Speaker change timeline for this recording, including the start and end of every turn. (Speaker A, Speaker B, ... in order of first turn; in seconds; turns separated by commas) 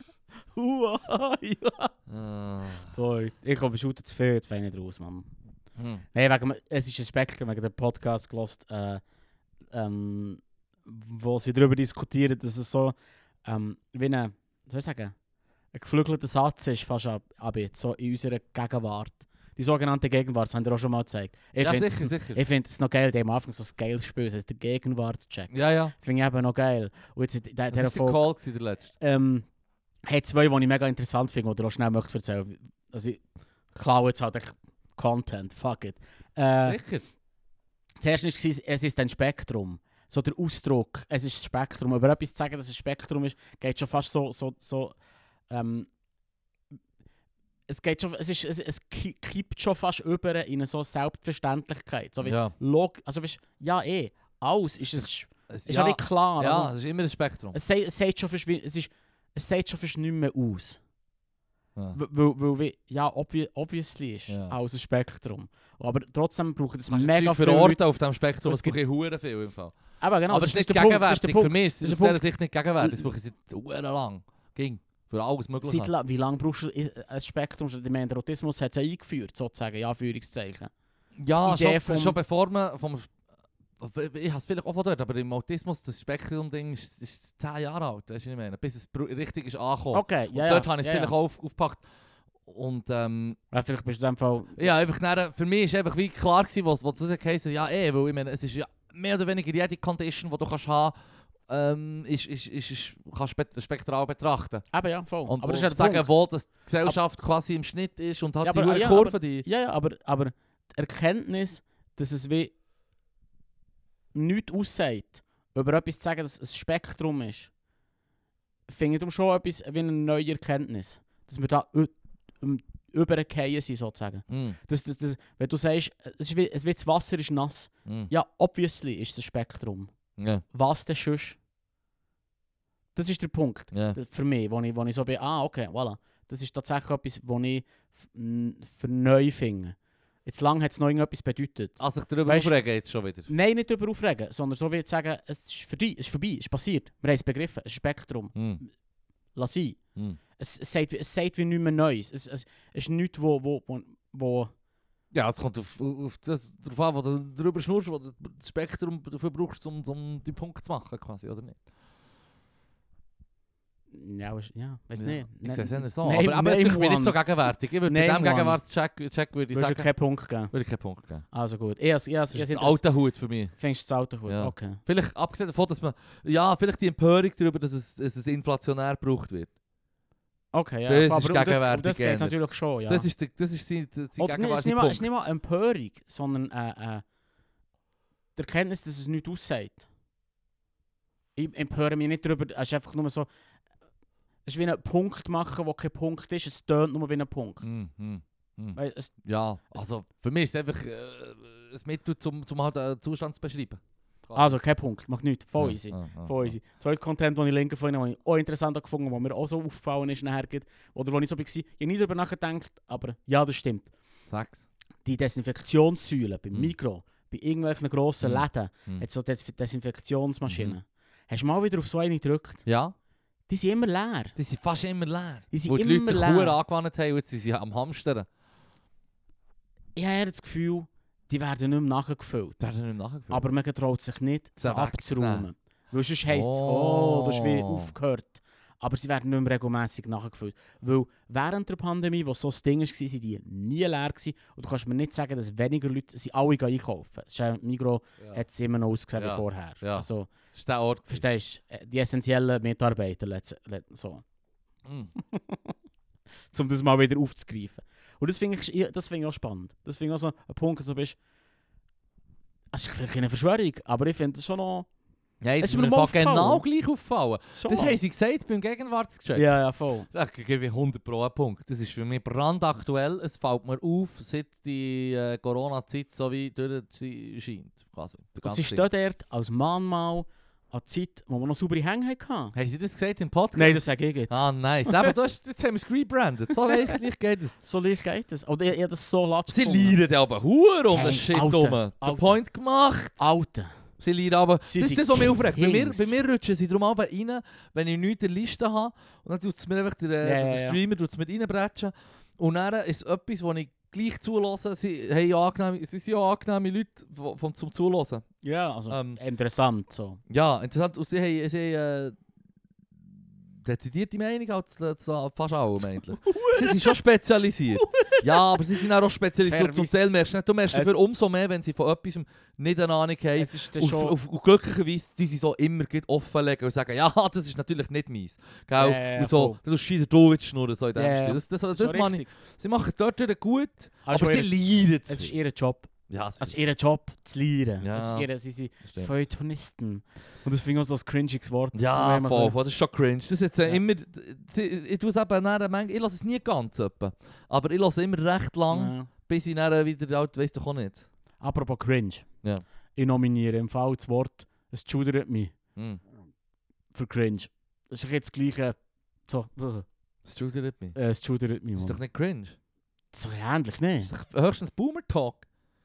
Speaker A: 0.5-1.9, Speaker B: 2.1-2.9, Speaker A: 2.9-5.3, Speaker B: 5.8-6.0, Speaker A: 6.1-9.0, Speaker A: 9.7-15.2, Speaker A: 15.7-28.2, Speaker B: 21.6-22.4, Speaker B: 25.5-25.9, Speaker B: 27.7-28.9, Speaker A: 29.0-29.5, Speaker A: 30.1-33.2, Speaker A: 33.7-36.8, Speaker B: 36.6-37.0, Speaker A: 38.0-45.0, Speaker A: 45.5-45.9, Speaker A: 47.7-56.7, Speaker B: 52.2-52.5, Speaker B: 54.9-57.6, Speaker A: 57.5-60.8, Speaker A: 61.9-67.8, Speaker B: 64.3-64.5, Speaker B: 66.9-69.8, Speaker A: 68.4-68.8, Speaker A: 70.0-72.2, Speaker B: 70.3-75.9, Speaker A: 72.8-73.1, Speaker A: 75.6-80.7, Speaker B: 81.2-83.1, Speaker A: 81.4-82.2, Speaker B: 83.8-91.8, Speaker A: 89.9-91.1, Speaker B: 92.5-93.4, Speaker A: 93.5-94.7, Speaker B: 94.6-100.9, Speaker B: 101.5-104.7, Speaker A: 104.7-106.1, Speaker B: 105.2-109.5, Speaker A: 108.4-112.5, Speaker A: 114.1-117.5, Speaker A: 118.7-129.9, Speaker B: 124.3-124.6, Speaker B: 127.9-128.1, Speaker B: 130.2-130.4, Speaker A: 130.5-131.4, Speaker A: 132.9-142.6, Speaker B: 133.7-134.0, Speaker B: 141.8-143.3, Speaker A: 143.3-148.7, Speaker B: 148.3-148.6, Speaker A: 149.3-149.8, Speaker A: 150.4-154.5, Speaker B: 155.1-161.6, Speaker A: 163.9-167.2, Speaker B: 165.0-169.9, Speaker A: 167.9-168.6, Speaker A: 169.5-170.5, Speaker B: 170.5-171.2, Speaker A: 171.3-172.8, Speaker B: 172.3-173.5, Speaker A: 173.6-174.8, Speaker B: 174.3-179.5, Speaker A: 180.5-183.1, Speaker B: 180.9-182.4, Speaker B: 182.9-185.1, Speaker A: 184.2-187.0, Speaker A: 188.4-189.9, Speaker A: 191.4-193.3, Speaker A: 194.5-197.6, Speaker B: 197.6-204.6, Speaker A: 198.8-199.1, Speaker A: 204.3-213.9, Speaker B: 205.6-206.6, Speaker B: 214.3-214.7, Speaker A: 215.1-222.6, Speaker B: 218.2-219.1, Speaker B: 220.5-220.8, Speaker B: 222.7-222.9, Speaker A: 223.5-224.4, Speaker B: 224.4-228.3, Speaker A: 225.5-226.6, Speaker A: 230.0-232.6, Speaker B: 232.6-233.4, Speaker A: 233.3-250.3, Speaker B: 234.6-235.5, Speaker B: 236.3-237.9, Speaker B: 249.2-251.2, Speaker A: 251.1-254.2, Speaker B: 254.9-255.1, Speaker A: 255.2-255.7, Speaker A: 256.5-261.2, Speaker A: 262.7-264.9, Speaker B: 265.4-269.5, Speaker A: 265.6-266.6, Speaker A: 267.5-268.0, Speaker A: 269.4-270.1, Speaker B: 270.1-278.8, Speaker A: 278.4-282.6, Speaker B: 282.5-287.6, Speaker A: 283.5-285.1, Speaker A: 287.6-290.0, Speaker B: 289.5-293.2, Speaker A: 290.9-292.4, Speaker A: 293.2-293.7, Speaker B: 294.0-308.2, Speaker A: 294.7-296.1, Speaker A: 300.2-300.8, Speaker A: 308.4-310.2, Speaker B: 308.9-309.2, Speaker B: 310.3-312.2, Speaker B: 313.6-335.3, Speaker A: 316.2-316.9, Speaker A: 317.8-318.9, Speaker A: 319.4-320.0, Speaker A: 320.7-321.0, Speaker A: 323.4-324.2, Speaker A: 328.8-329.6, Speaker A: 331.0-332.3, Speaker A: 334.0-342.6, Speaker B: 336.1-336.6, Speaker B: 337.8-338.3, Speaker B: 341.7-351.1, Speaker A: 348.7-349.1, Speaker A: 351.4-352.3, Speaker A: 352.9-355.6, Speaker A: 356.9-359.9, Speaker B: 360.2-361.0, Speaker A: 360.9-362.0, Speaker B: 361.8-362.6, Speaker A: 363.1-364.1, Speaker B: 364.0-365.4